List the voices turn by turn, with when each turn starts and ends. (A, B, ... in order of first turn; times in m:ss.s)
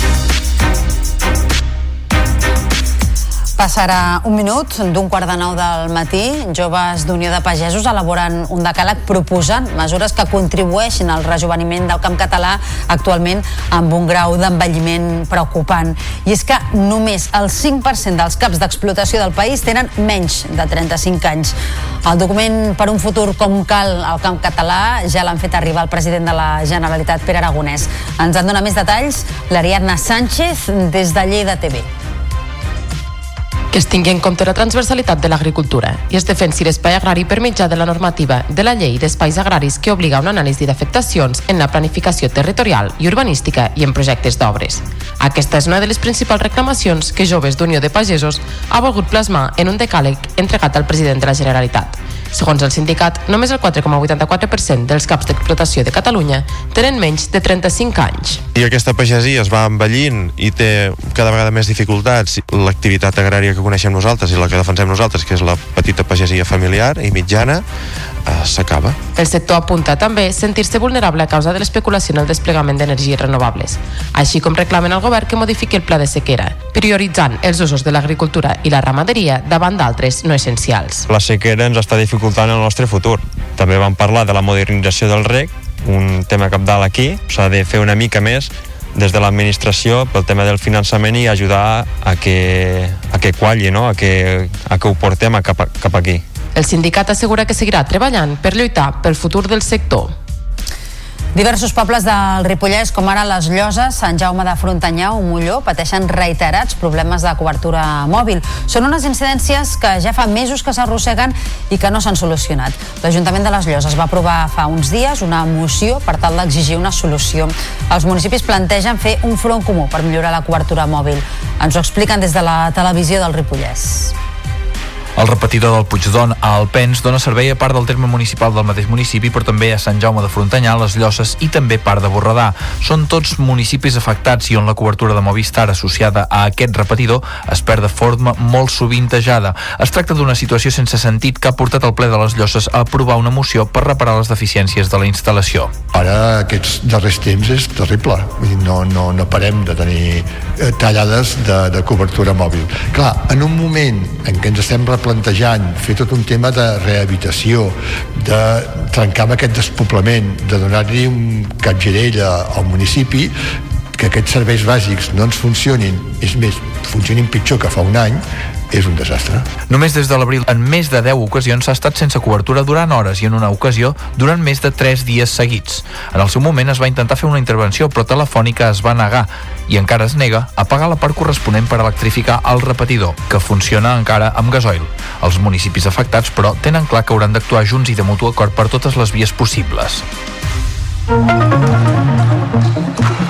0:03.6-0:31.9 A
0:33.7-0:58.4 B
0:58.6-1:07.6 C
1:08.3-1:09.0 C
1:09.2-1:21.0 B
1:21.1-1:36.2 C
1:36.6-1:40.1 B
1:41.3-2:04.2 A
2:05.2-2:25.7 D
2:25.9-2:43.4 E
2:44.0-2:49.5 E
2:49.7-3:10.0 D